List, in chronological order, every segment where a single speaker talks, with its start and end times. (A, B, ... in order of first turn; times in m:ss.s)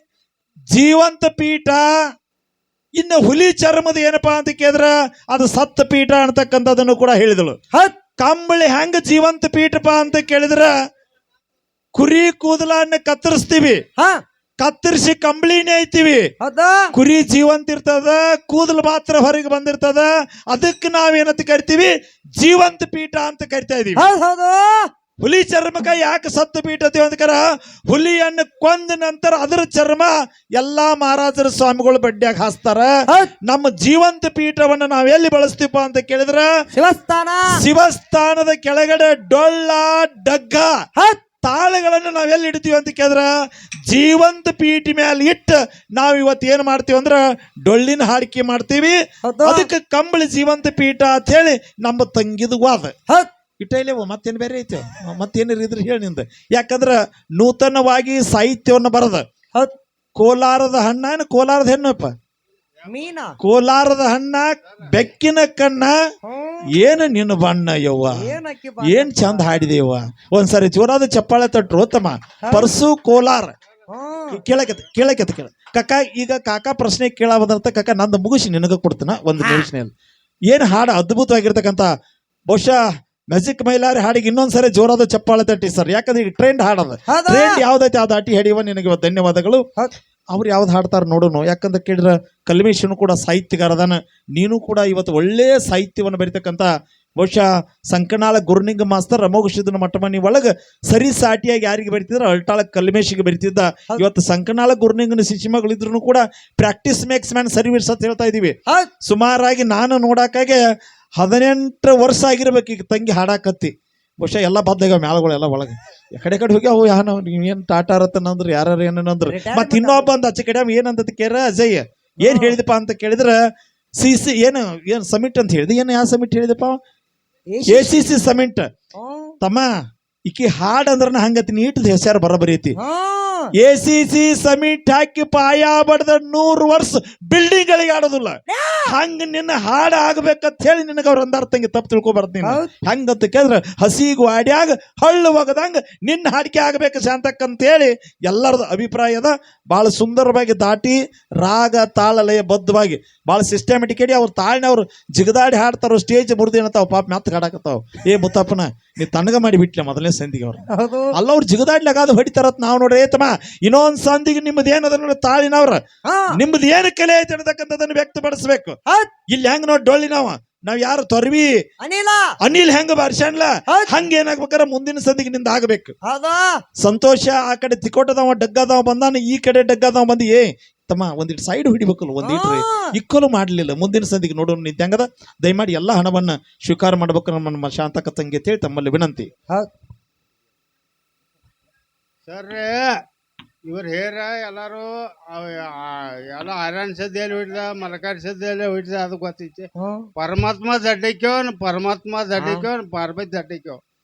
0:00.7-0:01.9 A
0:03.0-0:07.6 A
0:08.2-0:10.7 A
0:12.0-0:13.8 A
0:14.0-0:14.2 B
0:14.6-0:16.3 A
0:16.4-0:16.9 B
0:16.9-0:24.1 A
0:24.0-0:24.9 B
0:25.2-0:36.5 A
0:36.7-0:37.5 B
0:37.5-0:40.7 A
0:41.4-0:43.3 A
0:43.9-0:52.9 A
0:49.2-0:49.7 B
0:53.6-0:59.2 A
1:00.2-1:02.1 A
1:02.9-1:03.4 B
1:03.4-1:06.0 A
1:06.3-1:06.6 B
1:06.7-1:13.5 A
1:08.2-1:09.5 B
1:13.9-1:14.4 B
1:14.3-1:19.9 A
1:19.4-1:19.7 B
1:20.5-1:21.9 A
1:22.5-1:22.8 A
1:23.3-1:29.6 A
1:27.1-1:27.6 B
1:30.3-1:50.6 A
1:51.2-2:03.4 A
1:59.3-2:00.1 B
2:02.2-2:02.6 B
2:04.0-2:06.8 A
2:07.6-2:08.1 B
2:07.7-2:08.7 A
2:09.0-2:09.3 B
2:09.4-2:09.7 A
2:10.3-2:12.8 A
2:12.8-2:13.5 B
2:13.6-2:45.8 A
2:18.5-2:18.9 B
2:22.4-2:22.7 B
2:40.7-2:41.1 B
2:46.1-2:46.3 B
2:46.3-2:48.8 A
2:49.3-2:51.5 A
2:51.8-2:52.3 B
2:52.4-2:56.0 A
2:56.1-2:56.5 B
2:56.8-3:09.3 A
3:02.2-3:02.9 B
3:12.3-3:13.0 C
3:13.6-3:23.8 C
3:19.8-3:20.1 B
3:22.4-3:22.7 B